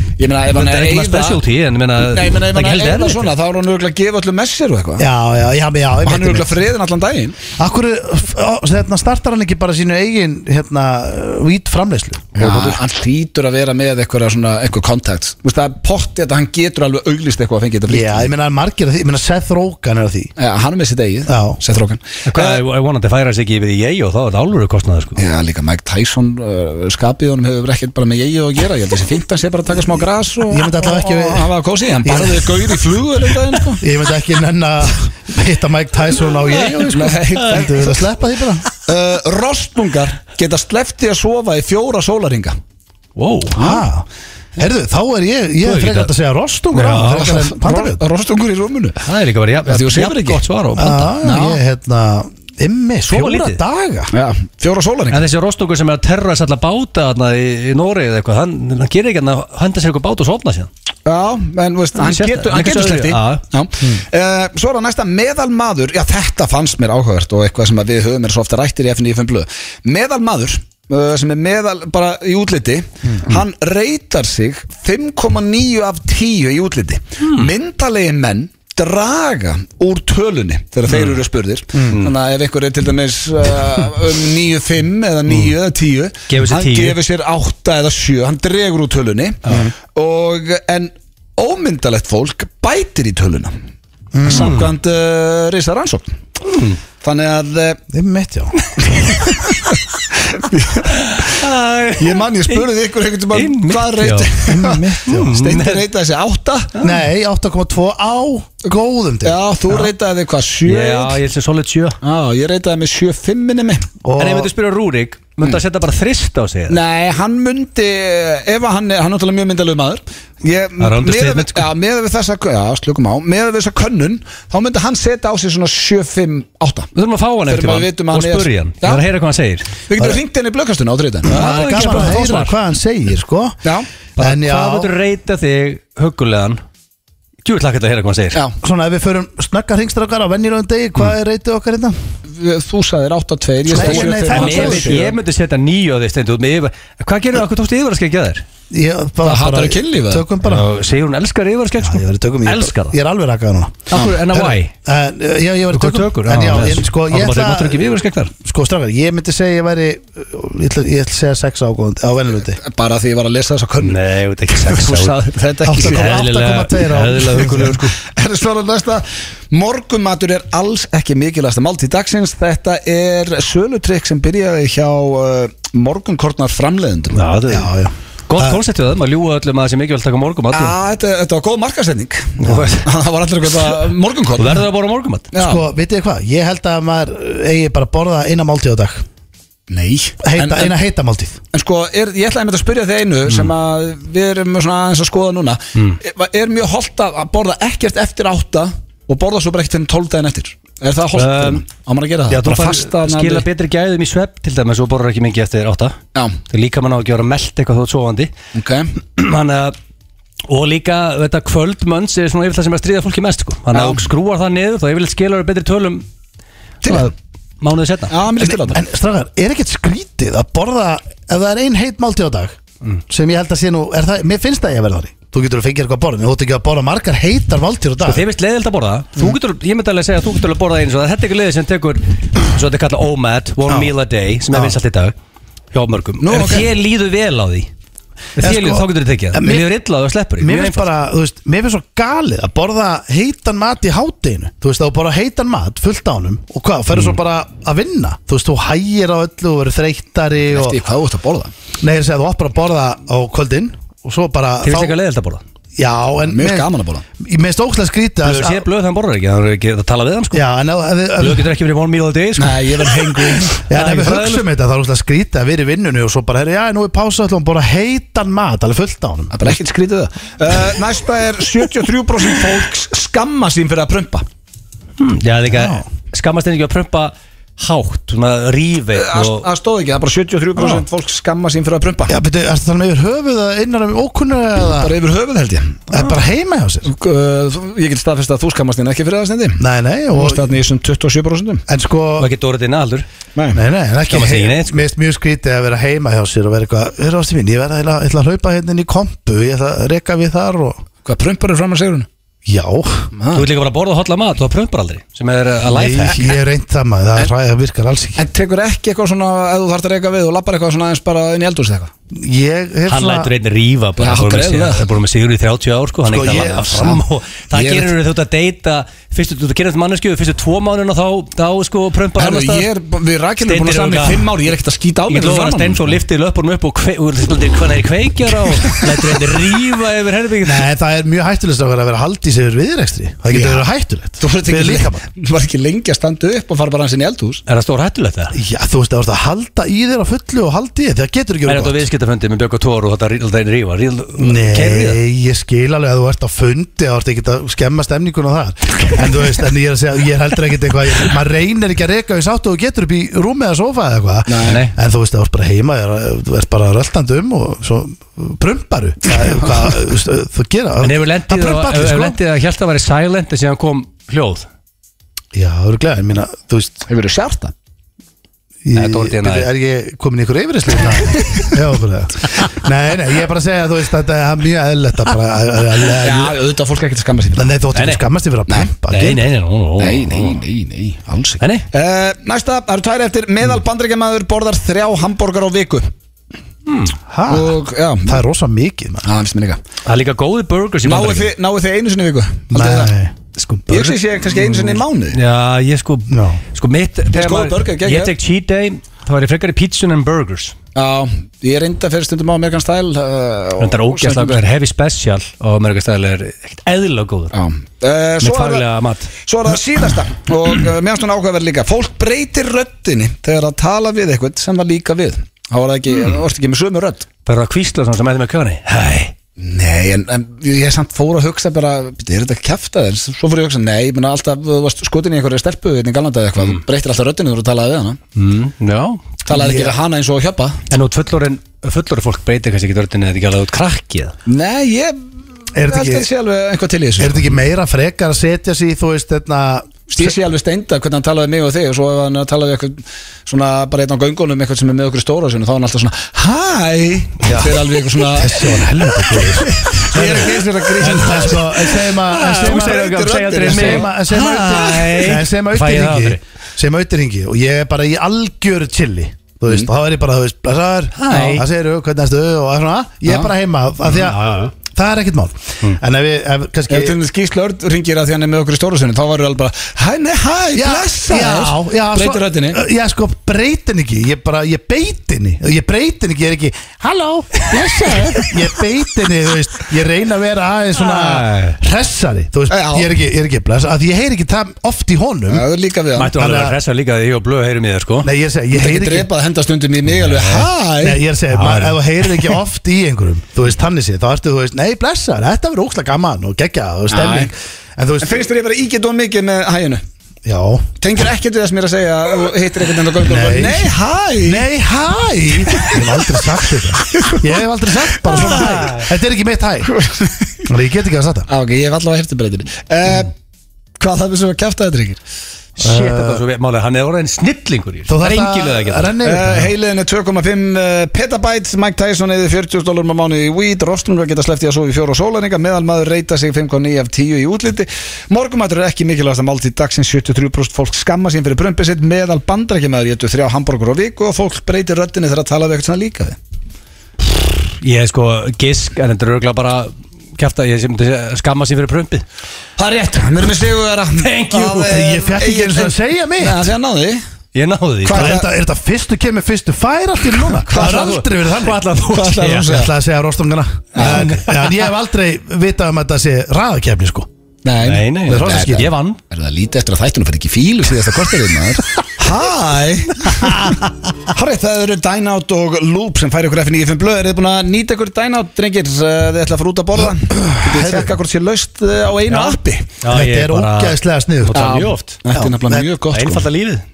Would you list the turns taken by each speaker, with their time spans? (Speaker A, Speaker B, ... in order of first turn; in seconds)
Speaker A: 0.2-1.4, 2.0-5.1, 6.0-7.4, 12.3-18.3, 20.4-22.6, 25.2-33.8, 36.9-38.0, 38.8-42.5, 47.0-49.0, 49.6-50.4, 51.2-51.6, 54.1-55.2, 61.0-93.5, 94.2-96.2, 97.0-97.8, 98.9-101.4, 102.0-106.8, 109.2-111.2, 112.0-113.9, 116.7-126.9, 127.5-129.0, 129.9-132.1, 142.3-145.1, 149.2-150.3, 162.5-166.2, 167.4-177.2, 180.5-184.6, 185.3-185.6, 189.7-190.7, 191.5-203.4, 208.5-208.9, 213.7-214.1, 216.8-217.1, 218.1-218.8, 236.2-236.7, 250.5-251.5, 256.3-257.0, 262.4-263.6, 269.3-274.2, 278.9-282.1, 284.8-285.9, 286.8-291.6, 293.4-293.6, 301.0-302.1, 303.1-303.5, 308.2-311.9, 314.0-314.9, 316.2-316.9, 317.5-317.9, 322.1-326.0, 328.6-329.1, 333.3-333.6, 334.2-337.4, 354.3-354.6, 359.2-359.6, 366.9-367.5, 371.1-371.5, 376.0-377.6, 379.8-385.9, 387.3-388.2, 389.0-389.6, 390.8-392.9, 393.7-395.2, 397.1-398.1, 400.7-404.4, 407.3-408.7, 409.2-417.1, 419.4-428.0, 429.2-430.6, 434.2-435.0, 435.7-437.3, 439.9-453.9, 466.7-472.6, 482.5-482.9, 485.3-486.1, 488.5-491.0, 496.9-497.3, 498.0-499.8, 500.8-504.5, 505.5-505.9, 506.8-507.3, 508.1-508.6, 509.7-510.5, 511.3-513.1, 513.8-515.0, 519.0-536.2, 542.6-547.0, 547.8-548.3, 550.2-551.0, 551.9-552.7, 553.7-554.1, 557.4-563.6, 564.1-572.7, 574.3-576.3
Speaker B: 0.5-3.3, 22.2-25.2, 36.5-37.6, 43.1-43.6, 45.6-46.1, 46.7-47.3, 49.0-51.1, 53.1-53.6, 55.1-60.7, 62.0-63.4, 77.2-77.5, 80.9-81.2, 86.3-87.0, 94.3-94.7, 96.4-96.8, 100.9-102.7, 103.3-104.3, 105.0-105.8, 110.7-112.0, 114.2-116.8, 120.8-121.7, 126.9-129.7, 131.3-132.5, 134.2-136.6, 137.4-138.4, 143.7-148.4, 150.4-153.0, 153.9-154.7, 155.7-158.3, 163.8-165.2, 165.8-167.9, 177.1-177.7, 178.3-180.8, 182.4-182.9, 184.4-185.3, 201.2-201.6, 202.3-206.0, 206.5-208.3, 209.1-209.7, 210.5-216.0, 217.6-218.1, 228.0-235.1, 235.7-237.7, 238.4-240.9, 254.6-255.4, 258.2-260.4, 261.2-264.5, 275.0-279.5, 292.2-293.1, 294.1-294.9, 303.3-306.2, 312.9-322.7, 323.4-324.3, 325.1-330.6, 337.5-338.4, 341.4-345.0, 354.4-354.7, 360.8-364.5, 368.7-369.5, 377.7-378.1, 378.9-380.4, 381.4-381.7, 386.6-386.9, 389.9-391.3, 393.4-400.5, 403.6-407.3, 408.2-409.1, 417.2-419.1, 428.1-429.2, 430.7-434.1, 449.7-451.1, 451.9-456.2, 460.9-461.4, 463.9-464.5, 480.8-481.6, 486.0-488.1, 490.0-490.5, 491.3-491.8, 508.1-508.9, 515.6-519.0, 537.1-542.0, 544.0-544.7, 547.3-548.2, 550.5-552.5, 553.8-554.4, 557.6-559.0, 572.1-575.0, 575.9-576.6
Speaker C: 5.0-6.5, 7.6-12.8, 17.9-20.3, 21.3-21.6, 30.5-32.6, 33.8-38.6, 43.6-44.0, 44.6-48.0, 50.8-54.1, 94.1-94.5, 97.9-98.7, 104.5-105.4, 106.8-109.8, 114.0-114.5, 131.3-133.6, 134.2-134.9, 138.6-141.9, 143.7-145.1, 148.7-150.7, 151.8-162.6, 165.6-167.8, 177.5-178.6, 185.3-189.0, 190.2-191.4, 218.4-222.6, 223.1-228.2, 233.7-233.9, 234.5-234.8, 238.4-239.7, 240.4-250.8, 251.8-254.9, 255.8-256.7, 257.2-258.6, 260.3-261.5, 263.7-269.5, 275.5-275.9, 282.1-284.9, 285.9-286.9, 289.6-290.5, 291.7-292.3, 293.5-300.8, 302.4-303.1, 305.7-308.2, 312.1-313.3, 316.1-317.0, 330.4-335.0, 338.3-341.8, 344.2-362.2, 365.3-366.8, 368.6-376.4, 377.4-379.3, 387.1-389.1, 392.5-393.1, 396.1-396.4, 429.3-429.8, 435.5-436.1, 437.0-440.1, 447.2-467.0, 470.5-485.4, 486.1-486.6, 488.0-489.1, 490.8-498.3, 500.2-500.7, 503.0-503.7, 504.2-509.7, 510.5-511.3, 515.6-516.2, 517.9-519.5, 544.5-546.5, 547.9-557.1, 558.1-558.7, 563.3-563.5, 570.4-570.9, 572.9-574.6, 575.1-575.7